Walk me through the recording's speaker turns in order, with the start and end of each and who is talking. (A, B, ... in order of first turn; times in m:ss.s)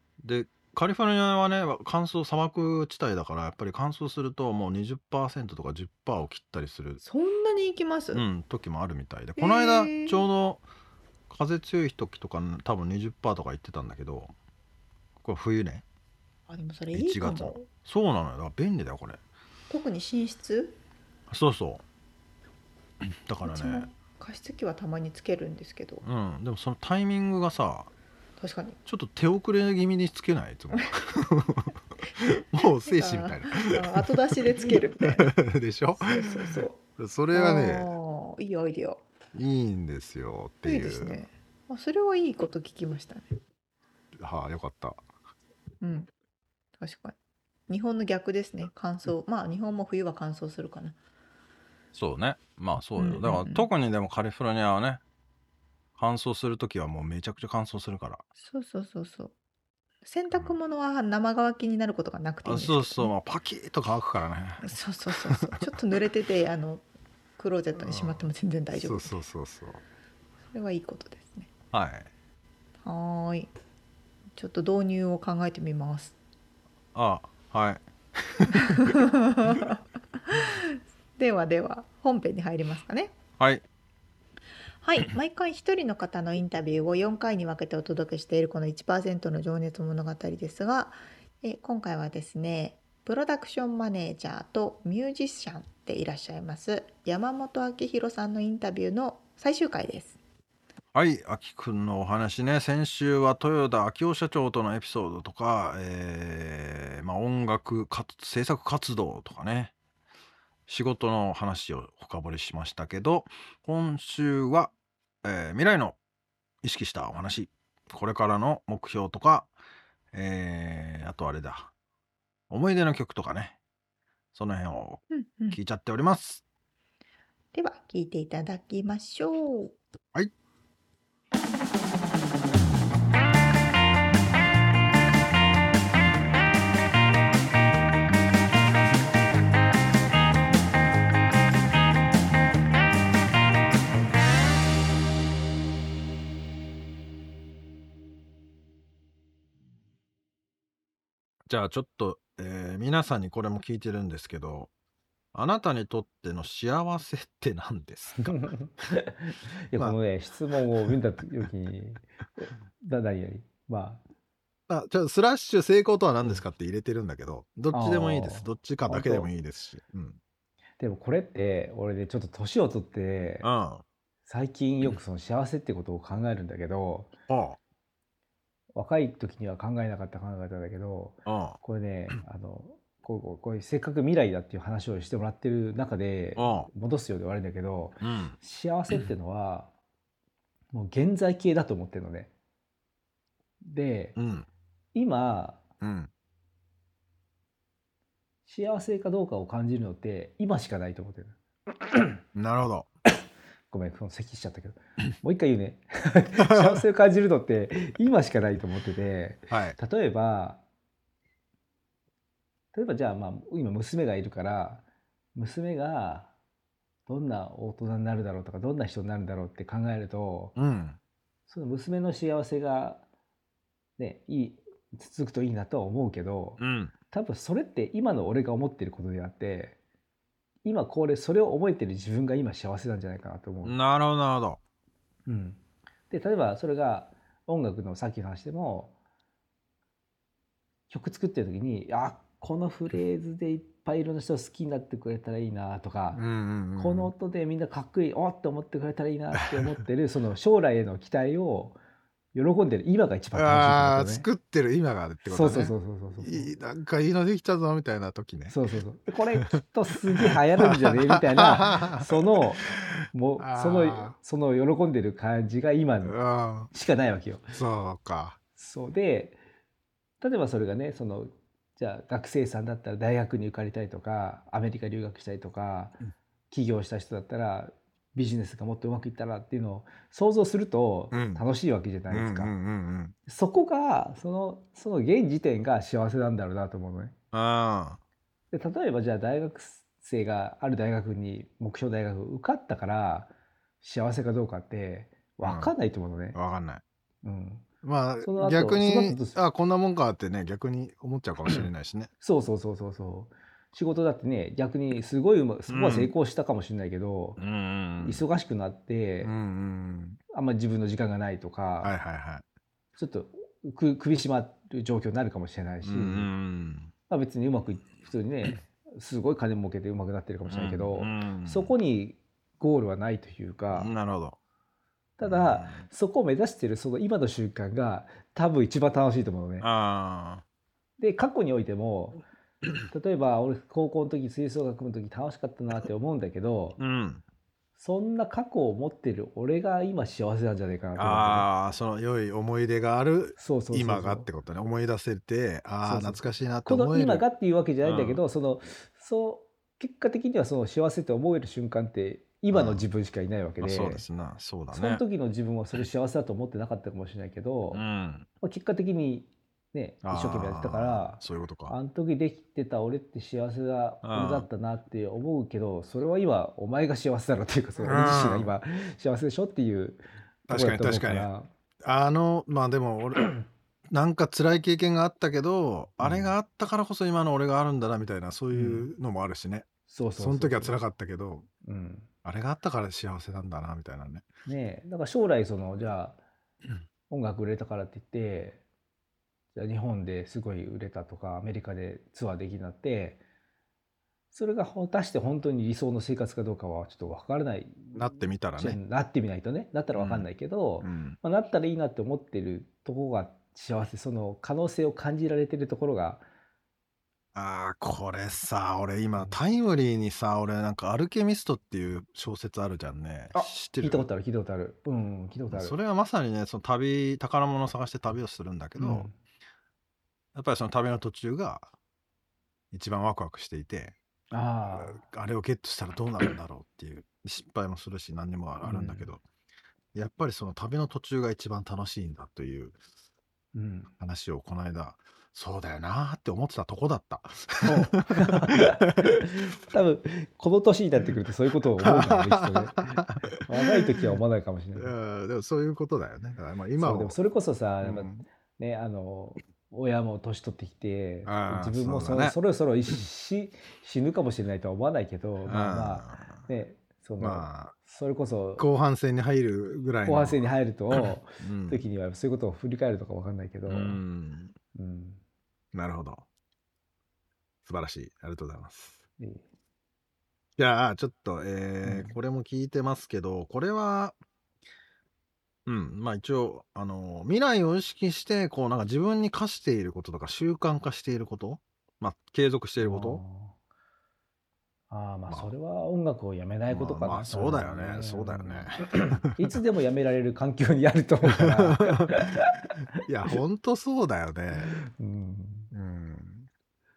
0:00.2-0:07.0 A
0:07.0-0:08.2 B
0:08.1-0:10.6 A
0:09.4-0:10.3 B
0:11.3-0:14.3 A
0:15.2-0:15.8 A
0:16.5-0:17.7 B
0:16.9-0:19.2 A
0:19.7-0:20.8 B
0:21.3-0:21.8 A
0:23.0-0:23.9 A
0:23.4-0:26.0 B
0:26.0-0:27.9 A
0:28.4-0:28.8 B
0:28.9-0:37.9 A
0:32.9-0:35.3 B
0:36.0-0:36.8 B
0:37.3-0:39.0 B
0:39.3-0:41.2 A
0:40.6-0:43.4 B
0:44.2-0:45.0 A
0:45.8-0:46.1 B
0:46.8-0:47.1 B
0:47.7-0:51.0 B
0:51.9-0:55.0 A
0:53.0-0:53.7 B
0:56.0-0:58.2 A
0:58.4-0:59.3 B
1:00.0-1:03.2 B
1:02.4-1:05.7 A
1:04.6-1:06.8 B
1:07.4-1:09.1 B
1:07.8-1:09.8 A
1:10.5-1:11.5 B
1:11.7-1:12.1 A
1:12.8-1:13.5 B
1:14.4-1:16.2 B
1:16.9-1:19.0 A
1:18.6-1:23.2 B
1:23.4-1:23.6 A
1:24.8-1:40.2 B
1:40.9-1:49.7 A
1:50.7-1:56.0 A
1:56.6-1:59.5 A
2:00.1-2:01.7 A
2:02.5-2:03.6 A
2:04.3-2:06.4 A
2:05.1-2:05.6 B
2:07.5-2:09.8 B
2:31.5-2:34.7 A
2:35.3-2:38.4 A
2:38.2-2:44.0 C
2:44.7-2:50.2 A
2:47.7-2:49.3 C
2:50.8-2:53.5 C
2:53.4-2:53.8 A
2:54.3-2:57.1 C
2:57.3-2:57.6 A
2:58.7-3:09.7 C
3:01.3-3:01.6 A
3:06.4-3:06.7 A
3:08.0-3:08.4 A
3:10.7-3:12.3 C
3:13.6-3:14.2 C
3:14.2-3:14.5 A
3:14.9-3:15.6 C
3:15.8-3:16.1 A
3:18.5-3:22.2 C
3:22.3-3:22.9 A
3:23.7-3:30.6 C
3:26.4-3:26.8 A
3:29.5-3:29.8 A
3:32.7-3:34.8 C
3:35.4-3:36.3 C
3:37.1-3:40.6 C
3:40.6-3:41.0 A
3:41.5-3:43.0 C
3:44.0-3:46.6 C
3:46.6-3:46.9 A
3:47.1-3:49.8 C
3:50.6-3:53.8 C
3:53.6-3:54.6 A
3:55.3-3:58.9 C
4:00.9-4:06.2 C
4:06.1-4:07.1 A
4:06.8-4:11.8 C
4:12.3-4:14.3 C
4:13.3-4:18.6 A
4:15.3-4:16.5 C
4:18.5-4:26.2 C
4:20.2-4:24.2 A
4:26.0-4:26.7 A
4:26.7-4:27.5 C
4:27.5-4:28.4 A
4:28.6-4:29.4 C
4:30.2-4:36.0 C
4:36.5-4:42.5 C
4:41.1-4:41.4 A
4:42.1-4:43.2 A
4:43.3-4:47.2 C
4:47.3-4:48.0 A
4:48.5-4:56.4 C
4:55.4-4:55.7 A
4:56.3-4:56.8 A
4:57.2-4:57.7 C
4:57.8-5:02.1 A
4:58.2-4:59.4 C
5:02.2-5:07.4 C
5:05.7-5:06.1 A
5:07.4-5:08.2 A
5:08.0-5:09.3 C
5:09.2-5:10.2 A
5:10.3-5:11.9 C
5:11.8-5:12.4 A
5:13.0-5:16.3 C
5:15.8-5:16.9 A
5:17.1-5:23.9 C
5:20.5-5:21.7 A
5:23.7-5:24.4 A
5:25.2-5:29.7 C
5:25.2-5:25.8 A
5:29.6-5:30.4 A
5:31.0-5:32.2 C
5:32.9-5:36.8 C
5:36.8-5:37.2 A
5:37.8-5:41.5 C
5:41.0-5:47.2 A
5:43.4-5:44.3 C
5:45.8-5:54.0 C
5:47.8-5:48.2 A
5:52.5-5:52.9 A
5:53.6-5:55.0 A
5:54.7-5:57.8 C
5:57.7-5:58.3 A
5:58.4-6:11.5 C
6:00.0-6:01.8 A
6:04.0-6:04.5 A
6:07.8-6:08.5 A
6:10.5-6:11.3 A
6:11.8-6:13.3 A
6:13.9-6:19.7 A
6:16.0-6:16.4 C
6:18.5-6:18.9 C
6:19.9-6:20.8 C
6:20.2-6:21.5 A
6:21.6-6:22.1 C
6:22.2-6:24.3 A
6:24.5-6:26.2 C
6:27.1-6:28.6 C
6:29.5-6:33.2 C
6:34.3-6:46.2 C
6:37.9-6:38.8 A
6:40.0-6:40.3 A
6:40.8-6:41.2 A
6:47.4-6:54.1 A
6:53.3-6:55.8 C
6:55.5-6:59.1 A
6:58.8-6:59.2 C
7:00.3-7:01.7 A
7:02.7-7:04.0 A
7:04.3-7:05.0 C
7:04.7-7:09.2 A
7:08.6-7:09.1 C
7:09.9-7:12.8 A
7:13.6-7:13.9 C
7:14.0-7:19.1 A
7:17.6-7:24.9 C
7:21.8-7:23.4 A
7:24.8-7:27.2 A
7:26.8-7:38.6 C
7:27.8-7:28.2 A
7:31.3-7:32.4 A
7:35.5-7:36.4 A
7:37.2-7:37.8 A
7:38.6-7:40.4 A
7:40.0-7:44.0 C
7:40.9-7:41.8 A
7:43.7-7:44.6 A
7:44.8-7:45.2 C
7:45.7-7:46.2 A
7:47.6-7:49.0 A
7:49.2-7:49.4 C
7:50.6-7:54.2 A
7:51.8-7:52.2 C
7:55.7-8:03.2 A
8:02.8-8:03.6 C
8:04.9-8:12.6 C
8:06.7-8:09.4 A
8:11.3-8:12.2 A
8:13.0-8:14.8 A
8:14.7-8:15.7 C
8:15.7-8:16.5 A